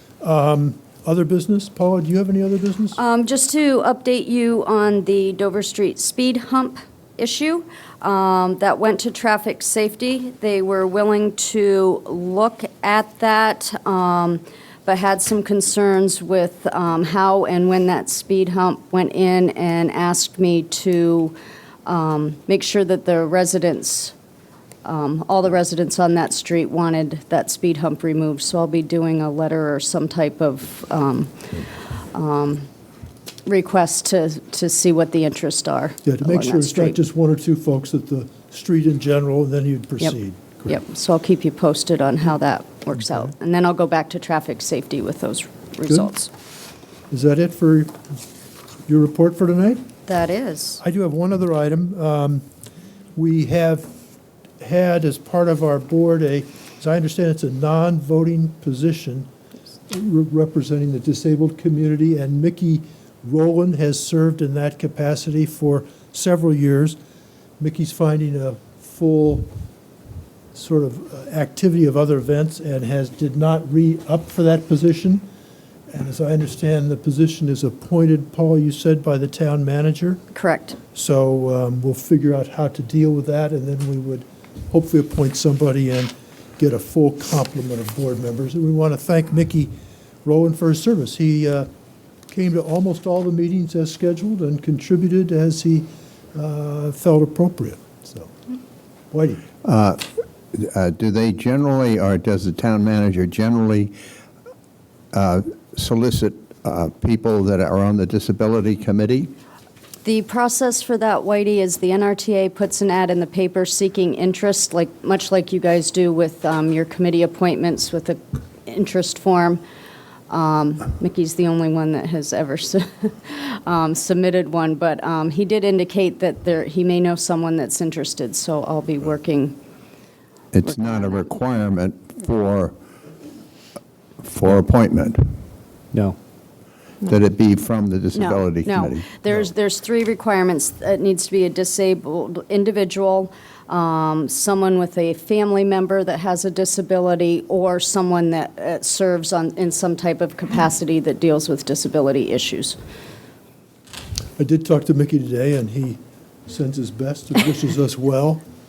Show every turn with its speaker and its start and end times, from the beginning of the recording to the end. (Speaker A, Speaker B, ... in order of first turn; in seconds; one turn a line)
Speaker A: 0.2-3.0
Speaker B: 3.0-24.1
Speaker B: 24.8-31.6
Speaker B: 32.1-32.7
Speaker B: 33.5-37.0
Speaker A: 36.0-40.8
Speaker B: 40.7-46.3
Speaker A: 47.1-48.0
Speaker A: 48.9-49.8
Speaker B: 50.1-50.8
Speaker A: 50.8-52.4
Speaker A: 53.1-53.9
Speaker A: 54.6-59.3
Speaker A: 59.9-67.0
Speaker A: 67.6-69.5
Speaker A: 70.5-75.2
Speaker A: 75.9-80.2
Speaker B: 80.3-80.8
Speaker A: 81.0-89.7
Speaker A: 90.2-91.7
Speaker A: 92.3-98.3
Speaker A: 99.1-99.5
Speaker C: 99.6-103.9
Speaker C: 105.1-109.3
Speaker B: 110.0-119.6
Speaker B: 120.3-129.6
Speaker C: 130.5-132.8
Speaker B: 130.6-131.3
Speaker C: 134.2-135.3
Speaker C: 137.1-139.5
Speaker B: 138.1-152.8
Speaker A: 154.4-158.4